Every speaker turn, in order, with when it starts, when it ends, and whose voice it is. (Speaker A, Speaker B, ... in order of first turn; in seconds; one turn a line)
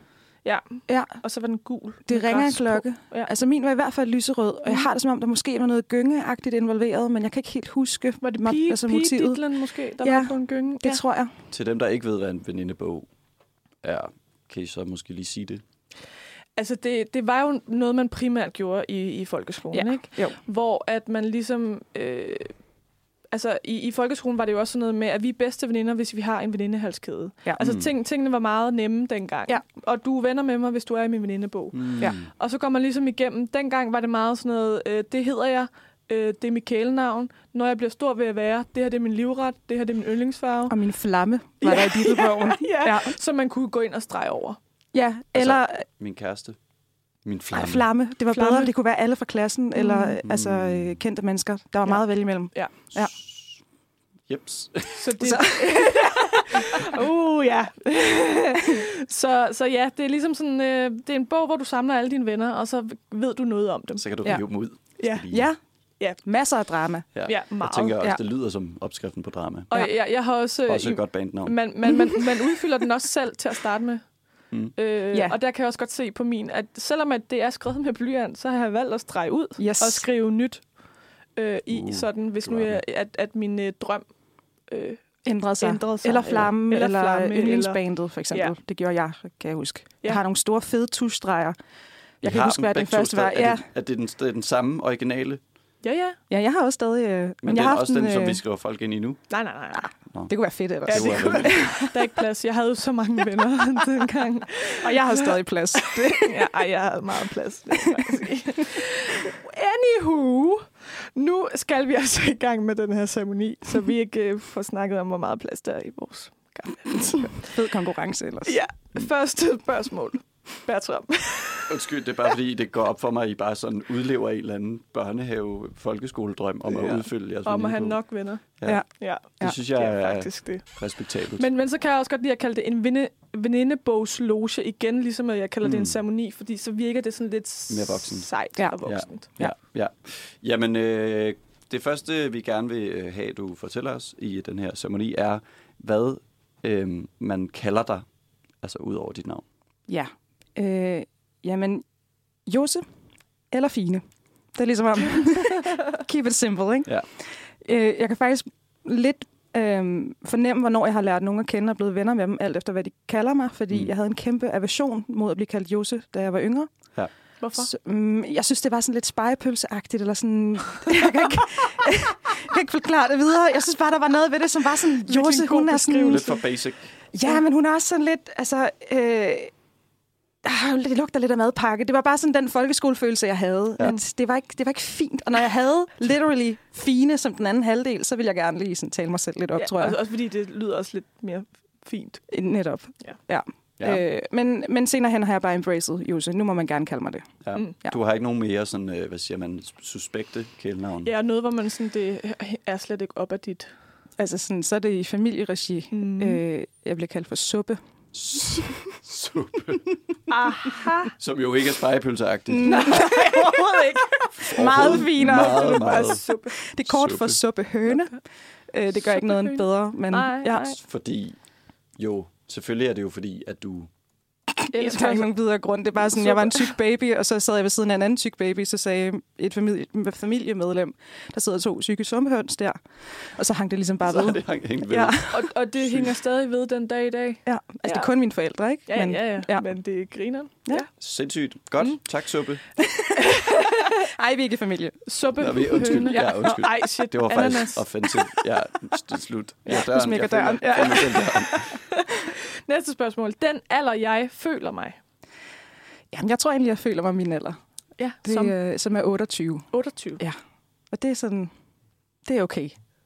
Speaker A: 0.4-3.3
Speaker B: 0.9-1.2
Speaker B: 2.1-9.5
Speaker A: 8.2-11.0
Speaker B: 10.0-11.3
Speaker C: 11.5-13.1
Speaker C: 13.8-15.6
Speaker A: 16.6-22.6
Speaker B: 19.7-20.4
Speaker A: 23.3-40.8
Speaker C: 27.6-27.9
Speaker C: 31.7-32.3
Speaker B: 40.7-43.1
Speaker A: 41.6-44.6
Speaker B: 44.9-45.9
Speaker C: 45.3-46.6
Speaker C: 47.2-47.9
Speaker B: 47.5-53.1
Speaker A: 48.3-48.7
Speaker A: 49.8-50.2
Speaker C: 50.2-51.0
Speaker A: 51.9-52.8
Speaker C: 53.2-53.5
Speaker C: 54.3-55.1
Speaker A: 55.0-64.4
Speaker B: 55.2-56.2
Speaker C: 64.0-65.5
Speaker B: 64.2-64.5
Speaker A: 65.0-65.3
Speaker B: 65.3-65.6
Speaker B: 66.2-67.4
Speaker C: 67.1-69.7
Speaker A: 67.3-68.0
Speaker A: 69.7-74.0
Speaker C: 70.7-71.6
Speaker A: 74.8-80.7
Speaker B: 75.1-75.4
Speaker B: 79.6-80.1
Speaker A: 81.4-84.1
Speaker C: 81.7-82.8
Speaker A: 84.7-88.5
Speaker B: 85.2-91.6
Speaker B: 92.2-93.7
Speaker C: 92.2-95.4
Speaker A: 95.8-96.2
Speaker B: 96.3-98.4
Speaker C: 97.4-99.2
Speaker A: 99.3-99.9
Speaker C: 100.1-101.6
Speaker B: 100.3-102.0
Speaker A: 100.9-117.6
Speaker B: 104.8-106.5
Speaker B: 116.9-118.6
Speaker A: 118.4-121.7
Speaker C: 121.7-128.0
Speaker A: 126.7-130.8
Speaker C: 128.6-131.5
Speaker B: 128.6-129.6
Speaker A: 131.3-139.3
Speaker C: 135.6-136.0
Speaker C: 137.7-148.1
Speaker B: 138.6-139.6
Speaker C: 148.6-149.4
Speaker B: 149.9-151.8
Speaker B: 152.5-152.8
Speaker B: 153.5-154.0
Speaker B: 154.6-166.7
Speaker A: 167.4-167.7
Speaker B: 167.6-176.4
Speaker A: 175.1-176.5
Speaker C: 176.1-176.9
Speaker B: 177.1-179.5
Speaker B: 180.4-190.0
Speaker A: 189.6-192.3
Speaker B: 192.3-197.3
Speaker C: 197.4-201.1
Speaker A: 201.1-203.7
Speaker B: 204.2-207.8
Speaker A: 205.9-206.4
Speaker C: 208.1-209.9
Speaker B: 208.6-208.9
Speaker A: 210.3-211.1
Speaker C: 211.2-213.0
Speaker B: 212.5-220.8
Speaker A: 212.7-216.6
Speaker C: 214.4-216.2
Speaker C: 216.8-217.4
Speaker A: 217.9-218.2
Speaker A: 218.9-220.8
Speaker C: 220.8-221.4
Speaker C: 222.0-223.9
Speaker B: 224.6-235.4
Speaker A: 224.7-225.4
Speaker A: 226.0-226.8
Speaker C: 234.0-236.1
Speaker A: 235.3-238.1
Speaker B: 237.5-239.7
Speaker A: 238.9-240.9
Speaker C: 241.0-242.6
Speaker B: 242.8-243.2
Speaker A: 243.6-243.9
Speaker B: 244.0-245.1
Speaker A: 245.1-248.1
Speaker C: 245.4-251.8
Speaker B: 249.7-251.4
Speaker A: 250.6-255.0
Speaker B: 256.1-257.6
Speaker A: 258.0-258.6
Speaker B: 258.2-260.4
Speaker A: 259.7-260.2
Speaker B: 260.9-261.5
Speaker B: 262.3-262.8